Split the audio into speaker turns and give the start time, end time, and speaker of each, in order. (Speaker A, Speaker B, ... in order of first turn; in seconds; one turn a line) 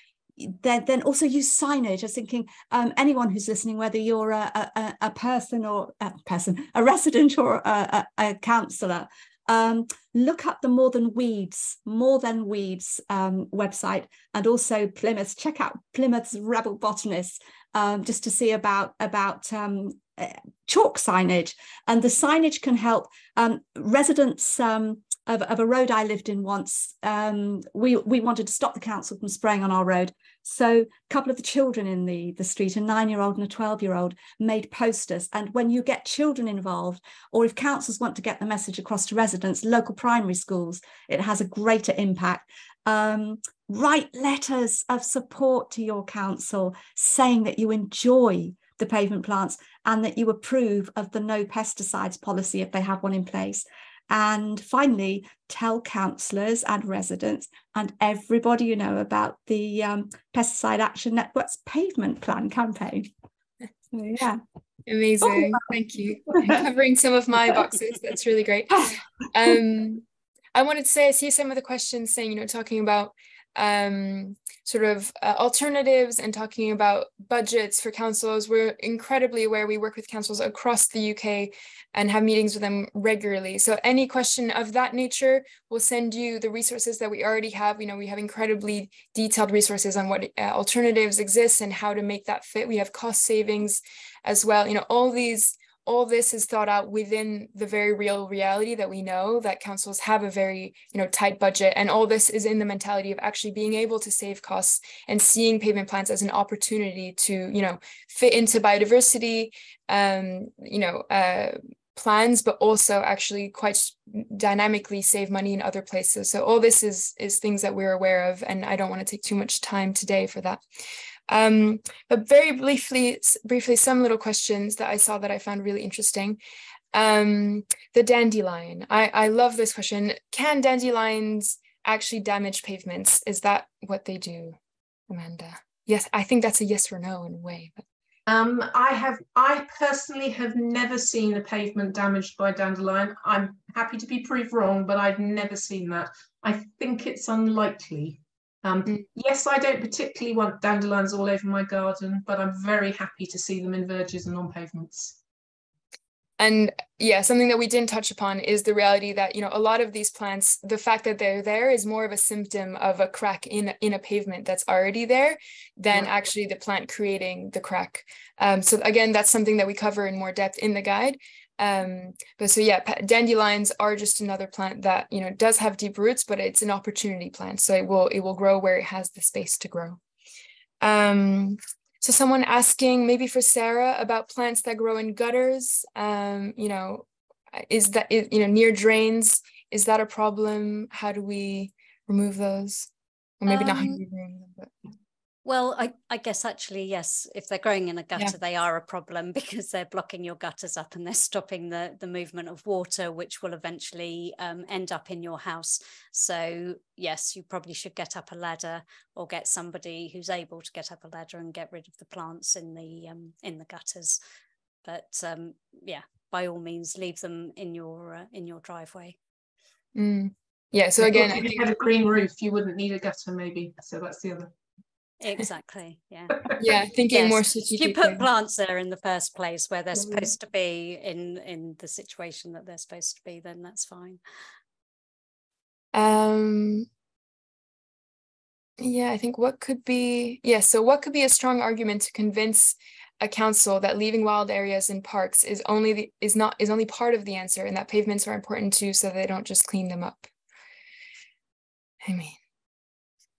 Speaker A: 0.4-63.1
Speaker A: 63.9-64.4
Speaker B: 64.9-120.6
Speaker A: 65.2-65.6
Speaker B: 121.3-126.4
Speaker B: 126.9-134.6
Speaker B: 135.1-137.8
Speaker C: 138.3-155.2
Speaker B: 156.4-180.0
Speaker B: 180.8-192.9
Speaker B: 193.4-194.7
Speaker D: 193.5-194.0
Speaker D: 195.4-214.2
Speaker D: 214.8-219.2
Speaker B: 219.9-221.6
Speaker C: 221.0-224.5
Speaker D: 225.2-226.5
Speaker B: 226.6-228.3
Speaker D: 227.1-234.2
Speaker B: 235.9-236.9
Speaker B: 238.8-250.3
Speaker B: 252.0-252.4